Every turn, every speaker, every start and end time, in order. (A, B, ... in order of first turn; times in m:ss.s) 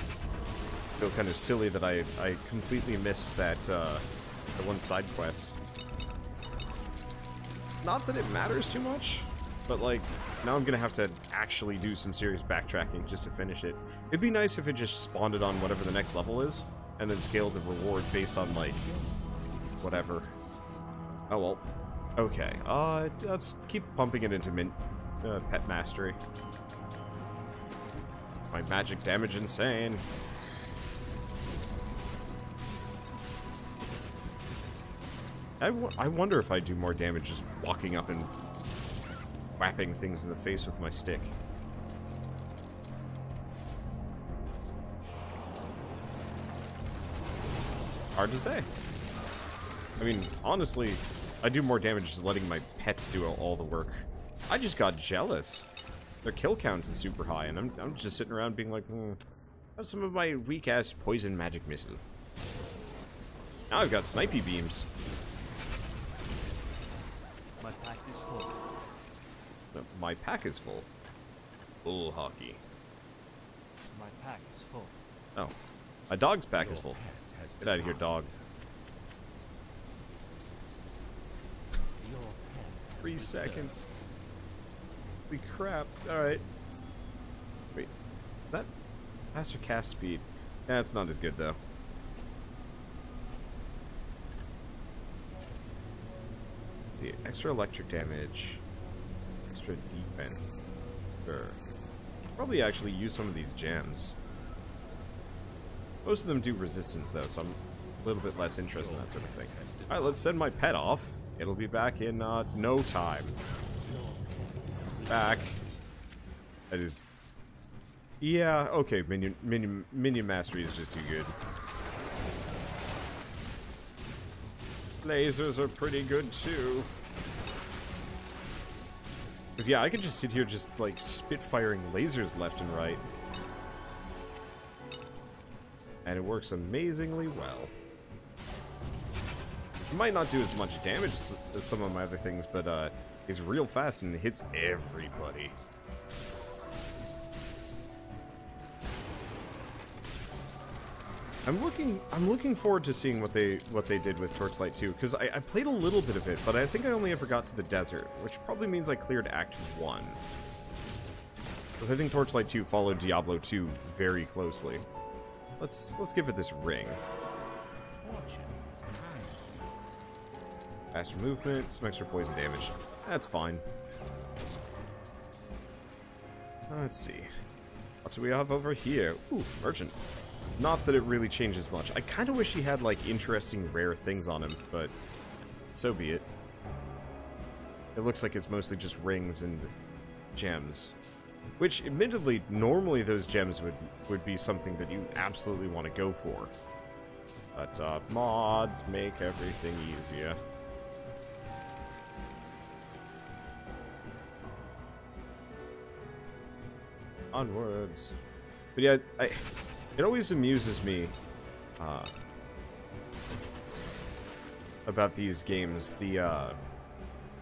0:01.0-0:05.6 A
0:07.8-0:18.8 A
0:18.4-0:20.4 B
0:19.8-0:20.3 A
0:21.3-0:21.6 A
0:22.2-0:26.2 A
0:28.5-0:30.0 A
0:35.6-0:38.3 A
0:39.6-0:41.3 A
0:48.2-0:48.7 A
0:50.0-0:55.7 A
0:56.2-0:59.2 A
0:59.8-1:02.0 A
1:03.7-1:04.9 A
1:07.6-1:08.5 B
1:09.7-1:10.9 A
1:11.8-1:12.6 A
1:13.9-1:14.9 B
1:16.1-1:17.0 A
1:16.5-1:18.5 B
1:17.6-1:18.3 A
1:22.0-1:23.9 B
1:23.0-1:23.9 A
1:25.3-1:26.4 A
1:29.3-1:31.6 A
1:36.9-1:38.6 A
1:39.5-1:40.6 A
1:41.2-1:41.6 A
1:42.4-1:44.2 A
1:46.0-1:53.4 A
1:48.7-1:50.4 B
1:53.8-1:55.6 B
1:55.1-1:55.6 A
1:56.7-1:57.1 A
1:58.2-2:01.4 A
2:05.0-2:06.9 A
2:09.6-2:13.0 A
2:16.0-2:17.7 A
2:19.9-2:25.6 A
2:31.4-2:40.2 A
2:41.8-2:44.8 A
2:45.6-2:47.0 A
2:47.9-2:49.8 B
2:50.9-2:53.6 A
2:56.7-2:57.3 A
2:58.0-3:00.0 A
3:00.6-3:04.9 A
3:05.7-3:06.2 A
3:07.9-3:09.7 A
3:10.3-3:10.9 A
3:11.6-3:16.5 A
3:17.5-3:20.4 A
3:27.3-3:28.2 A
3:28.7-3:29.4 A
3:30.0-3:31.1 A
3:31.8-3:32.1 A
3:34.8-3:36.6 A
3:35.9-3:36.4 B